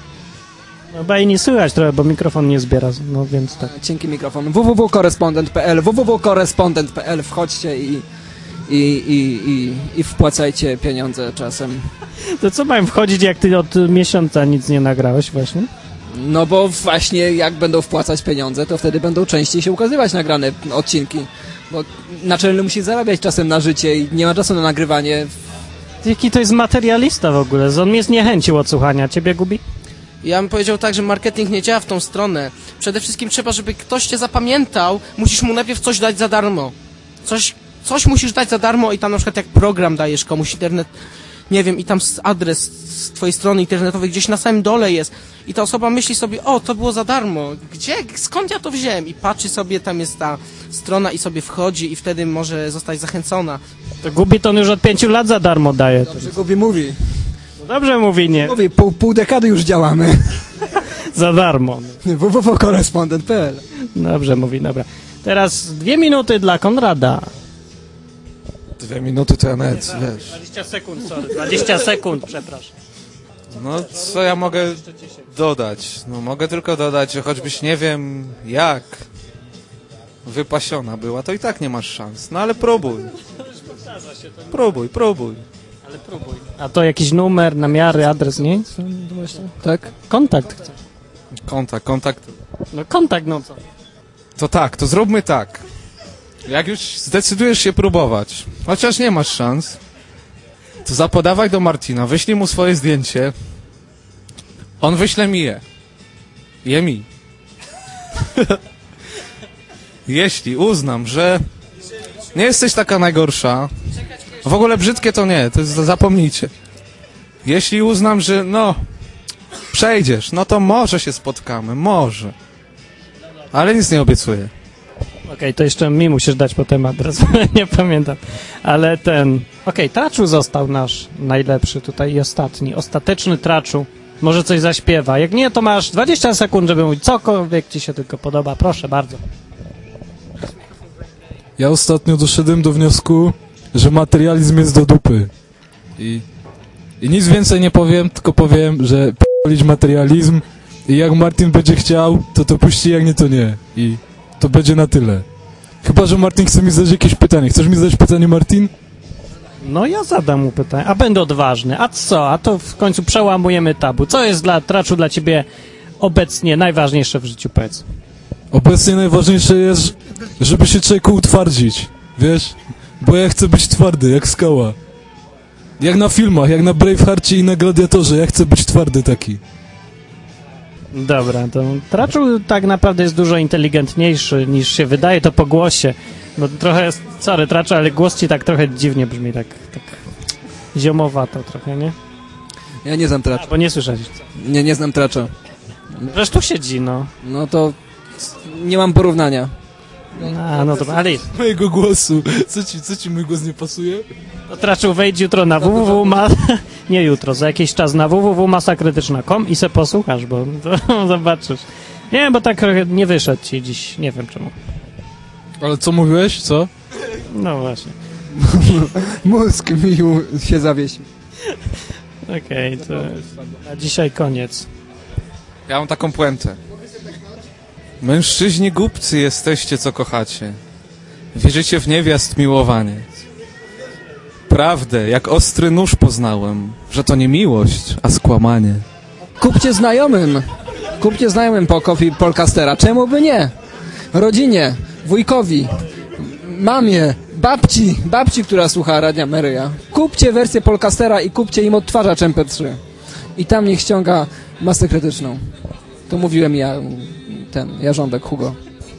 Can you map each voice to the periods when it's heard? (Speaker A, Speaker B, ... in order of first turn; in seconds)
Speaker A: 0.9-3.7, 12.2-15.7, 26.0-29.6, 54.0-56.4, 57.6-58.6, 61.1-62.0, 63.9-67.3, 70.1-72.7, 83.6-84.3, 85.8-89.0, 90.0-90.8, 92.7-93.6, 125.3-139.2, 159.6-165.5, 166.0-167.8, 180.9-190.0, 190.7-191.9, 193.4-194.2, 196.1-197.1, 200.2-201.3, 204.5-214.6, 217.2-217.9, 222.3-224.7
Speaker B: 3.6-8.1, 8.7-11.9, 16.1-25.3, 56.1-57.0, 58.4-60.4, 62.0-63.6, 88.8-89.9, 192.8-193.5, 194.3-195.3, 197.2-199.5, 218.3-221.1, 239.4-240.4, 241.0-243.5, 244.1-252.8, 253.4-255.4, 256.1-258.6
Speaker C: 30.2-40.9, 41.5-53.6
Speaker D: 68.8-70.3, 73.5-79.0, 80.2-83.1, 84.5-85.4, 91.5-92.4, 94.4-95.6, 96.5-99.8, 100.8-103.3, 104.8-105.6, 106.6-107.1, 110.1-111.4, 112.3-113.7, 114.4-116.5, 117.5-118.8, 119.7-122.3, 123.5-124.5, 225.7-226.6, 228.0-230.6, 231.3-233.1, 234.5-238.8
Speaker E: 141.6-145.3, 146.0-146.2, 147.0-155.2, 155.8-158.7, 168.5-174.8, 175.8-179.4, 200.7-204.1, 215.6-216.7